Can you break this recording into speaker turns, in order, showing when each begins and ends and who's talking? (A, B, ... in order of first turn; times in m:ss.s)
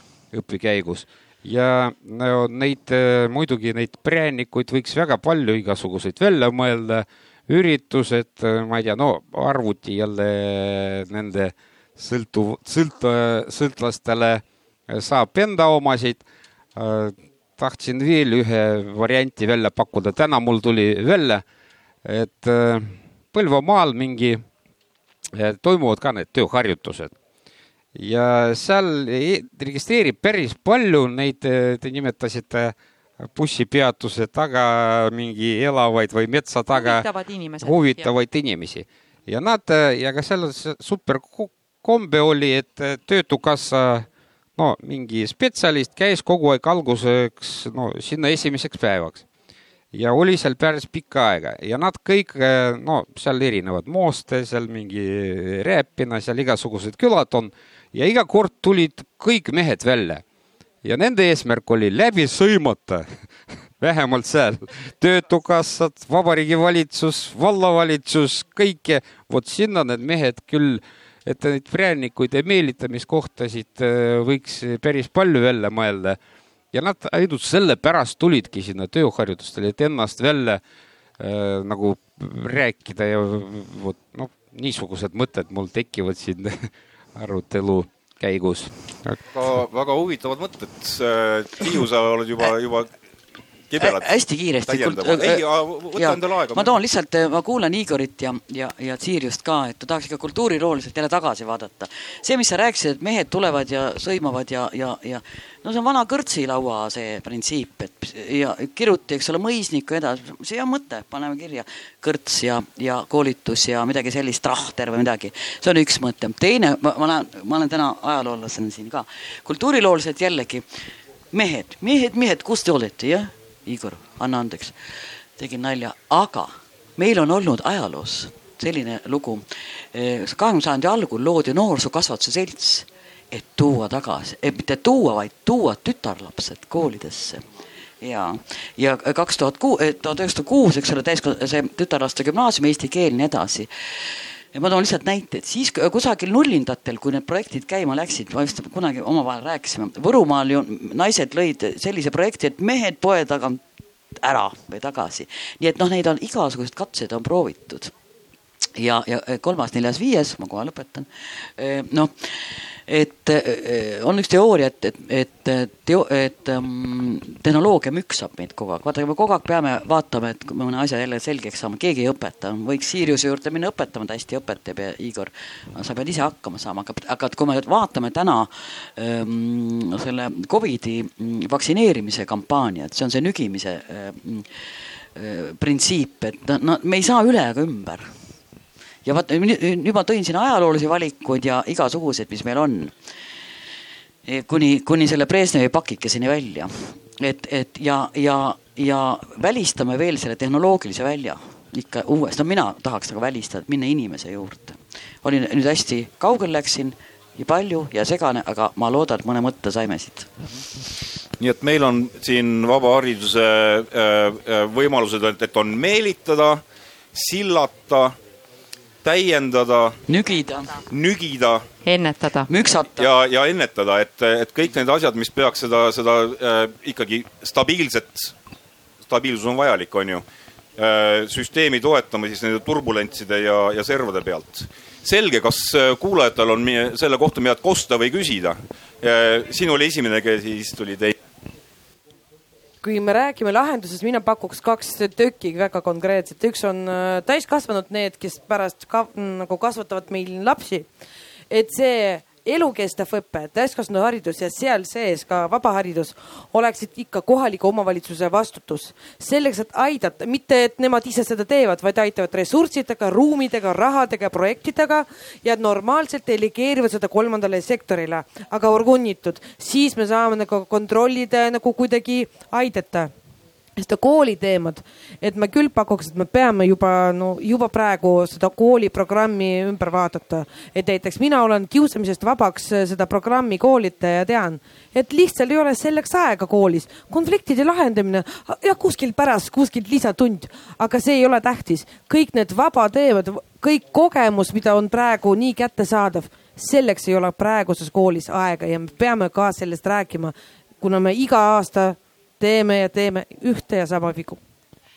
0:00.3-0:16.2 A
0:16.8-0:21.4 A
0:22.0-0:24.4 A
0:25.3-0:27.1 A
0:27.9-0:37.0 A
0:36.7-0:38.1 B
0:37.6-0:49.2 A
0:49.9-1:00.2 A
1:00.8-1:03.1 A
1:03.8-1:16.2 A
1:16.7-1:20.6 A
1:21.2-1:29.2 A
1:29.3-1:32.9 C
1:33.7-1:34.1 C
1:33.8-1:35.4 D
1:34.6-1:36.8 C
1:35.9-2:00.6 D
2:01.3-2:17.4 D
2:18.0-2:33.6 D
2:34.2-2:37.9 D
2:38.7-3:08.1 D
3:09.0-3:13.0 D
3:14.2-3:30.3 D
3:31.4-3:36.6 C
3:37.1-3:38.2 C
3:39.0-3:40.0 C
3:40.1-3:40.7 D
3:40.9-3:41.6 C
3:41.8-3:42.5 B
3:42.5-3:43.1 D
3:43.0-3:48.3 C
3:49.1-3:50.2 C
3:50.8-4:01.2 C
4:02.8-4:10.9 E
4:11.5-4:33.1 E
4:33.8-5:04.4 E